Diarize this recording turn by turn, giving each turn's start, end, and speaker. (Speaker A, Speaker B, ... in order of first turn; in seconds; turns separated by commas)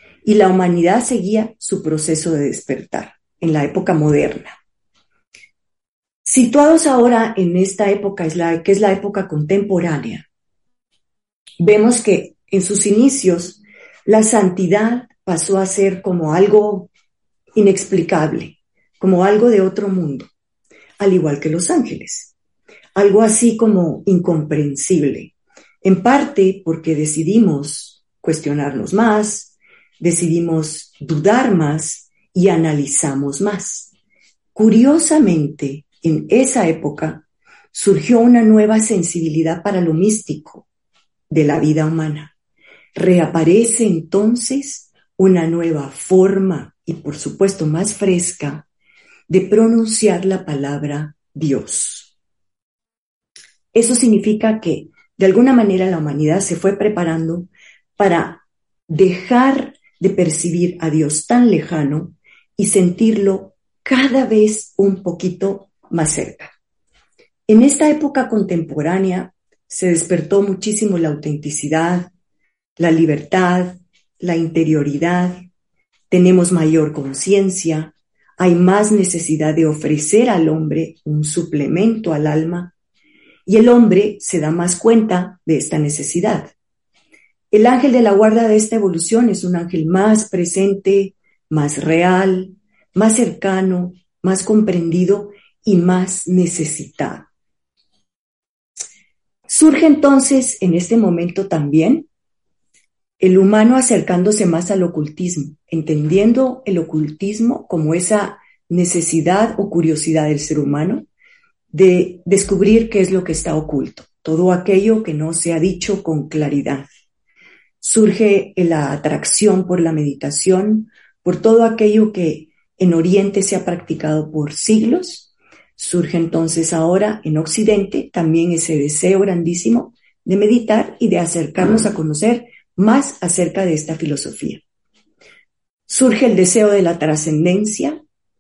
Speaker A: 0.2-4.6, Speaker A: 6.2-10.3, Speaker A: 11.6-16.9, Speaker A: 17.6-20.3, Speaker A: 21.0-22.3, Speaker A: 23.0-33.9, Speaker A: 34.5-40.7, Speaker A: 41.3-42.3, Speaker A: 43.0-48.7, Speaker A: 49.3-52.1, Speaker A: 53.7-66.5, Speaker A: 67.5-72.1, Speaker A: 72.8-75.4, Speaker A: 76.1-82.7, Speaker A: 83.5-86.5, Speaker A: 87.5-97.3, Speaker A: 99.5-102.1, Speaker A: 103.2-111.1, Speaker A: 111.7-116.9, Speaker A: 117.8-134.6, Speaker A: 135.9-138.0